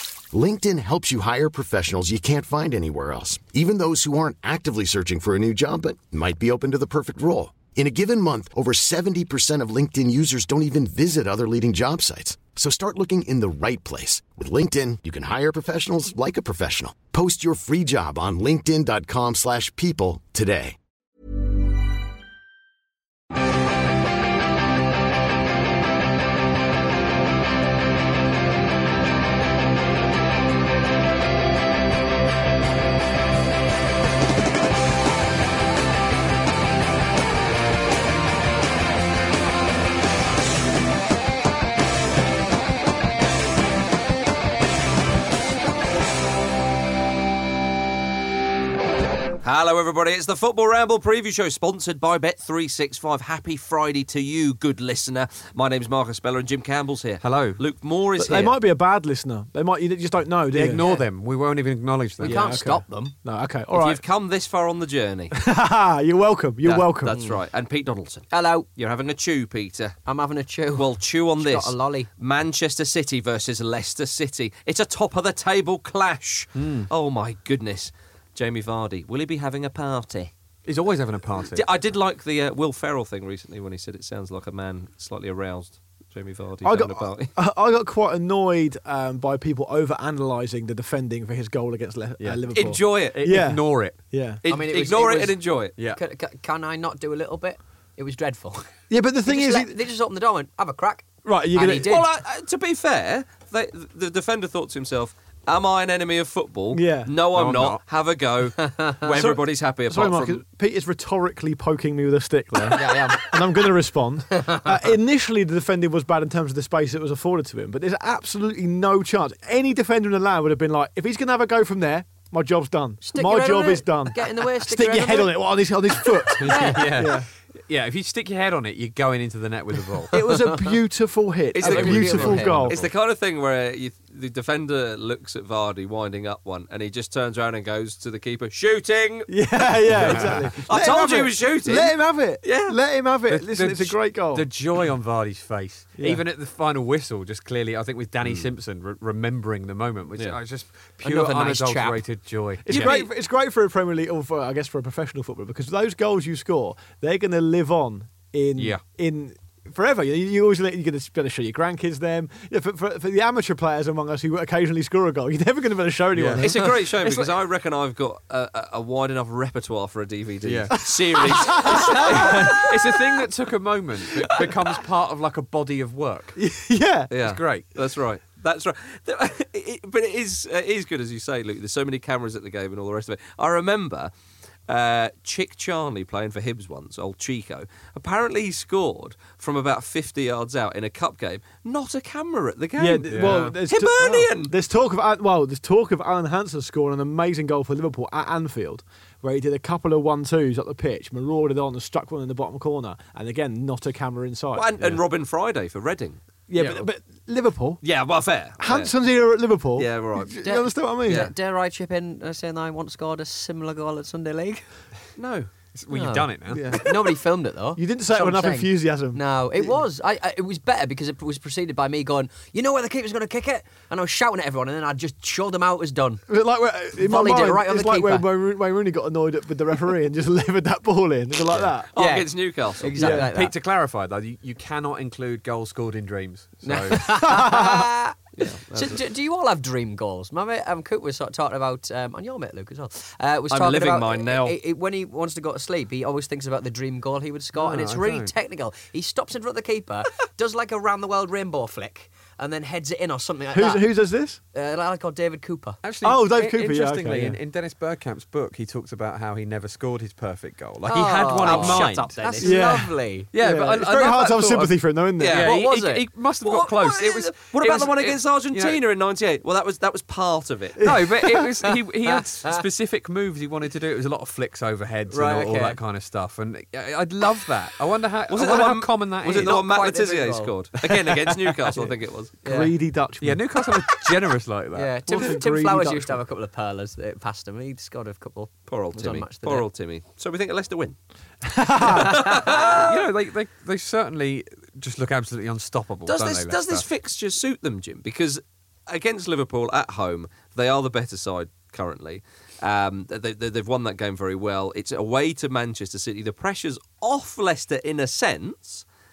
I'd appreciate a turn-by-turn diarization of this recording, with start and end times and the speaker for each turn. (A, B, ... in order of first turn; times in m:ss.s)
0:00.3-0:20.8 A
0:49.4-0:58.6 B
0:57.2-0:57.6 C
0:58.2-1:00.8 D
1:00.5-1:02.6 C
1:00.8-1:01.1 E
1:02.2-1:03.1 E
1:02.2-1:04.0 D
1:03.7-1:05.4 B
1:05.3-1:07.2 D
1:06.6-1:10.0 B
1:07.1-1:07.4 E
1:08.3-1:08.7 E
1:10.1-1:12.1 E
1:10.8-1:20.3 B
1:16.6-1:16.9 C
1:20.6-1:21.7 C
1:21.4-1:27.3 B
1:26.6-1:34.4 D
1:32.2-1:34.0 C
1:32.5-1:33.5 B
1:34.4-1:35.7 B
1:34.5-1:42.0 E
1:38.9-1:39.8 D
1:41.2-1:41.9 D
1:41.7-1:50.4 B
1:46.7-1:47.1 D
1:47.3-1:47.8 C
1:48.6-1:49.2 E
1:49.3-2:07.3 D
1:52.8-1:53.3 E
2:03.0-2:05.4 E
2:06.3-2:06.9 E
2:06.4-2:10.2 C
2:10.1-2:12.8 D
2:11.5-2:22.8 B
2:11.6-2:12.7 E
2:12.5-2:12.9 C
2:19.3-2:24.5 D
2:19.9-2:20.6 C
2:23.3-2:33.0 C
2:26.0-2:26.2 D
2:28.2-2:28.5 B
2:31.0-2:32.0 E
2:32.6-2:46.9 D
2:32.7-2:33.1 B
2:38.6-2:38.8 C
2:46.2-2:46.4 C
2:46.4-2:52.5 B
2:50.4-2:56.4 C
2:50.8-2:53.0 D
2:56.4-2:57.1 D
2:57.1-3:04.1 B
2:57.2-2:57.8 C
3:04.7-3:14.5 B
3:12.8-3:24.7 D
3:13.1-3:13.6 C
3:24.6-3:26.2 B
3:26.5-3:27.8 D
3:26.6-3:26.9 C
3:27.8-3:29.0 B
3:28.6-3:31.3 D
3:29.8-3:30.5 B
3:30.4-3:34.7 E
3:31.1-3:31.3 B
3:35.2-3:35.5 B
3:35.7-3:37.0 C
3:35.9-3:46.2 E
3:36.5-3:36.8 D
3:37.8-3:39.8 D
3:46.3-3:51.9 D
3:47.0-3:48.2 E
3:51.9-3:53.0 B
3:52.0-3:53.5 E
3:53.0-3:53.3 D
3:53.0-3:57.0 C
3:56.6-4:15.8 E
3:57.2-3:57.9 D
3:58.4-3:59.0 B
4:03.5-4:04.6 B
4:07.6-4:08.3 C
4:13.5-4:14.4 D
4:15.8-4:22.1 C
4:16.0-4:17.4 D
4:20.9-4:23.3 E
4:21.4-4:22.6 B
4:22.4-4:25.4 D
4:23.3-4:28.8 C
4:25.2-4:25.6 B
4:25.3-4:26.1 E
4:26.4-4:30.9 B
4:30.8-4:31.2 D
4:30.8-4:39.6 C
4:35.1-4:35.8 E
4:38.3-4:42.3 B
4:39.3-4:40.6 E
4:40.9-4:41.9 C
4:42.4-4:42.7 E
4:42.4-4:43.8 D
4:43.2-4:44.9 C
4:44.8-4:49.7 E
4:45.1-4:46.2 D
4:48.7-4:51.0 B
4:51.5-4:52.1 D
4:51.9-4:52.9 B
4:52.1-4:52.5 E
4:52.8-4:56.9 C
4:56.0-5:08.8 B